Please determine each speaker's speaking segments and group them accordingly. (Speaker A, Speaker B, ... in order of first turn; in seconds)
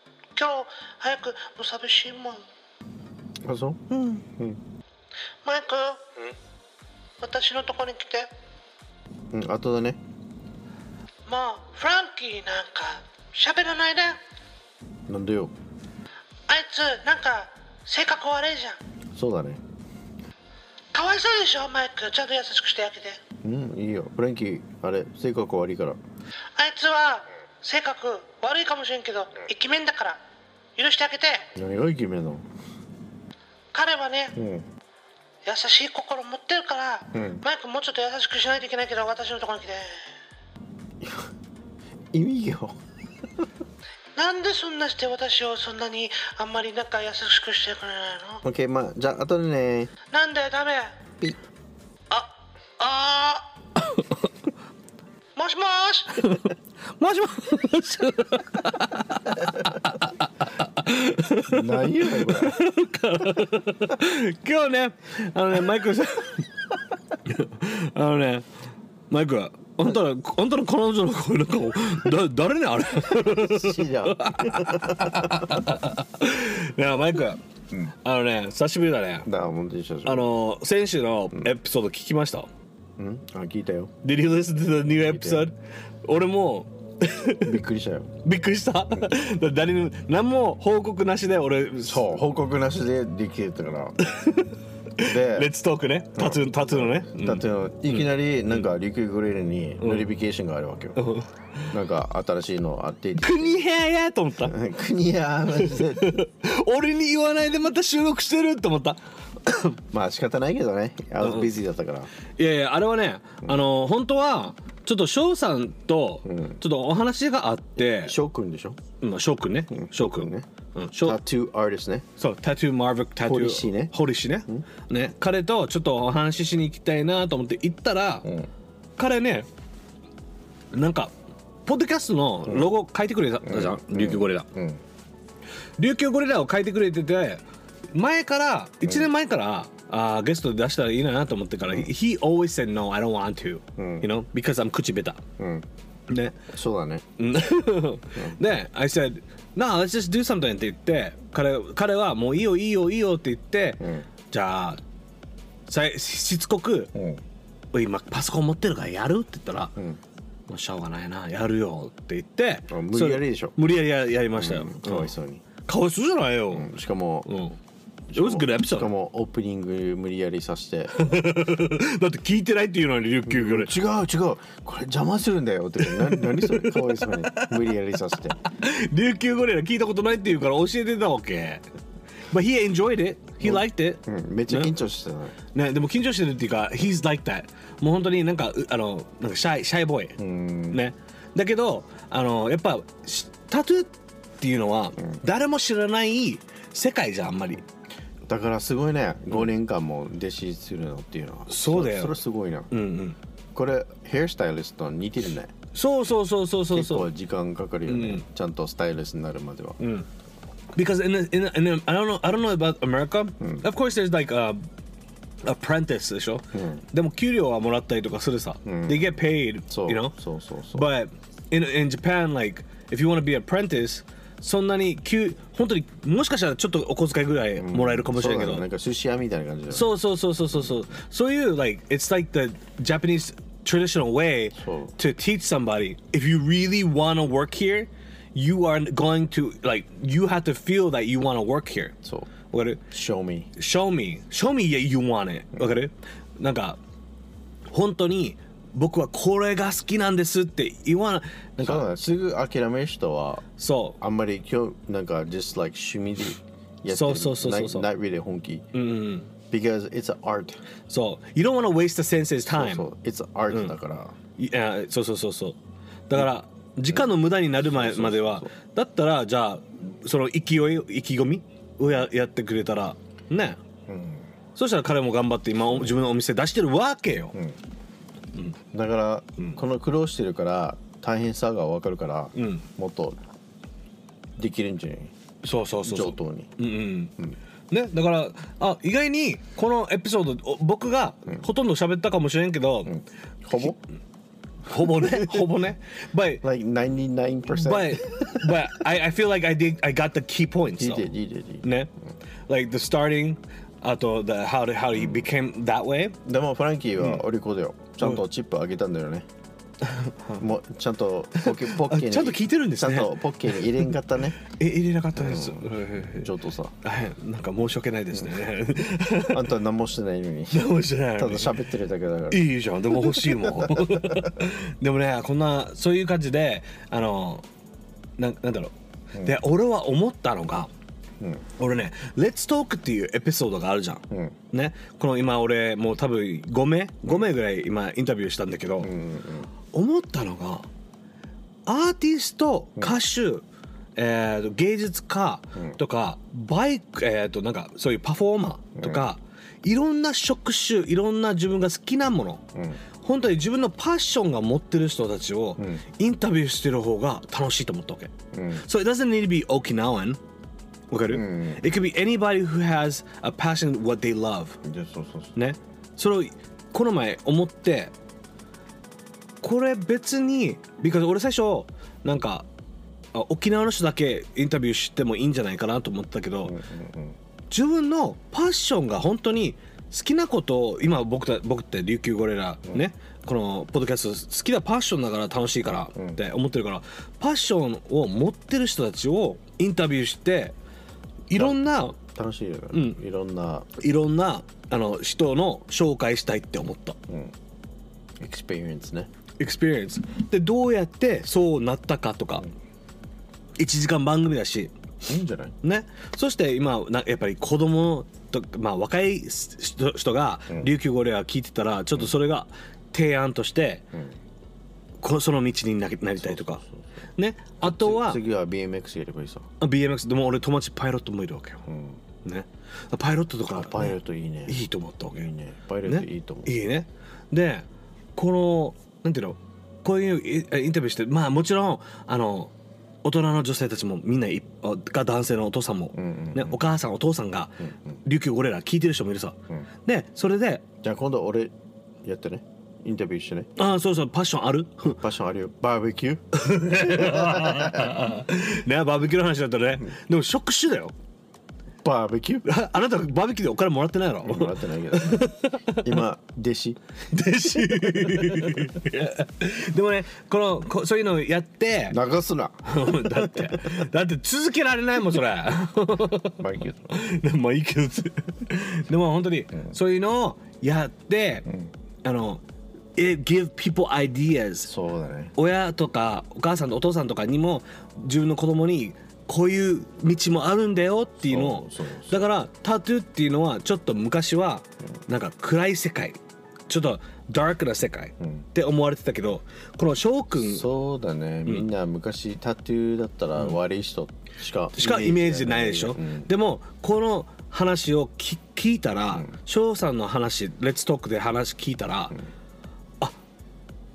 Speaker A: 0.3-2.4, 5.4-6.1, 7.2-8.3, 11.3-14.2, 16.5-18.8, 20.9-23.2, 26.6-30.2, 30.8-31.5, 33.7-34.3, 35.4-40.0, 44.1-48.4, 50.1-51.0, 52.1-53.5, 55.4-56.3
Speaker B: 3.4-4.6, 9.3-10.0, 15.1-15.5, 19.1-19.6, 23.4-26.0, 31.5-32.4, 34.3-34.7, 37.1-37.4, 41.0-41.3, 42.1-42.8, 48.4-49.9, 61.5-62.6, 73.2-75.7, 79.2-80.3, 83.0-83.9, 85.0-85.5, 87.4-88.1, 91.9-94.0, 95.0-95.5, 96.1-101.0, 101.7-103.7, 104.4-106.2, 109.9-112.1, 116.2-116.6, 117.9-118.8, 119.7-120.5, 121.0-122.0, 123.2-123.9, 128.2-128.5, 132.4-132.7, 133.4-134.8, 138.8-139.1, 143.8-144.1, 145.4-145.7, 146.5-147.0, 153.8-154.1, 156.9-157.2, 162.7-163.6, 164.3-165.4, 166.5-167.3, 168.1-171.0, 173.3-178.4, 183.4-185.3, 190.2-190.8, 198.3-202.7, 203.5-205.5, 206.7-209.8, 213.4-213.6, 216.5-216.8, 218.6-220.9, 227.6-229.9, 234.6-234.9, 242.0-242.3, 242.9-243.5, 251.6-253.4, 254.0-258.6, 259.5-260.6, 262.5-264.1, 266.9-268.5, 273.9-274.3, 278.7-283.2, 284.4-285.1, 285.8-286.5, 292.9-293.8, 294.8-295.5, 296.4-298.6, 300.8-301.6, 304.9-305.2, 306.2-309.2, 310.4-314.4, 315.1-316.7, 319.3-324.3, 331.2-331.4, 334.1-334.4, 338.8-339.5, 348.8-349.1, 352.5-352.8, 355.6-355.8, 358.3-358.6, 361.1-361.6, 364.6-365.3, 376.4-377.2, 391.3-393.7, 397.1-397.3, 398.2-399.1, 405.1-405.5, 416.2-416.8, 417.6-419.5, 421.7-422.0, 423.5-426.5, 435.9-436.6, 437.6-438.0, 440.8-441.5, 442.0-443.5, 444.9-448.1, 451.8-452.4, 454.2-456.8, 457.6-458.6, 461.9-463.7, 466.4-466.9, 471.4-471.7, 474.7-475.3, 481.2-482.3, 488.2-488.4, 490.4-496.3
Speaker C: 3.9-4.2, 56.2-66.5, 67.2-68.5, 69.1-77.4, 78.0-79.3, 80.0-82.5, 84.0-87.5, 88.2-92.2, 94.0-98.0, 101.0-101.3, 103.2-104.5, 105.6-109.8, 111.2-111.5, 112.4-118.1, 119.0-121.2, 122.2-128.2, 129.0-129.5, 130.7-131.1, 131.7-134.4, 135.8-145.2, 146.1-146.3, 147.2-154.8, 155.7-156.9, 157.7-159.7, 160.5-165.1, 165.6-166.7, 167.2-167.6, 168.1-168.9, 170.9-173.7, 175.8-177.6, 178.4-181.6, 182.3-184.7, 185.5-190.2, 190.7-197.6, 201.5-202.2, 202.7-203.2, 205.7-207.1, 207.9-208.2, 209.8-210.1, 210.8-214.6, 215.4-220.1, 220.7-228.6, 229.7-241.9, 242.5-242.8, 243.6-246.8, 247.7-252.0, 253.6-254.0, 256.9-257.9, 258.7-259.3, 260.9-262.9, 264.4-265.6, 266.1-273.6, 274.6-277.3, 282.3-282.7, 285.4-287.1, 287.7-292.9, 294.6-296.4, 297.5-301.1, 301.6-301.9, 302.5-306.1, 309.8-310.4, 311.4-313.2, 314.4-316.3, 316.8-319.5, 320.5-321.6, 322.3-327.4, 328.2-330.7, 331.6-338.9, 339.7-340.7, 341.6-343.4, 343.9-352.4, 353.0-360.2, 360.9-364.6, 365.3-367.9, 369.4-372.4, 373.1-376.6, 377.5-390.6, 391.3-391.9, 392.7-393.0, 393.8-397.0, 399.4-402.5, 403.6-404.7, 405.6-413.9, 415.0-416.6, 417.2-418.2, 419.6-421.6, 422.2-423.9, 424.5-425.3, 425.8-432.5, 433.0-440.6, 443.6-445.0, 446.3-450.9, 452.4-455.8, 457.1-462.0, 462.6-471.4, 472.0-472.4, 472.9-474.7, 475.4-490.6, 494.7-502.1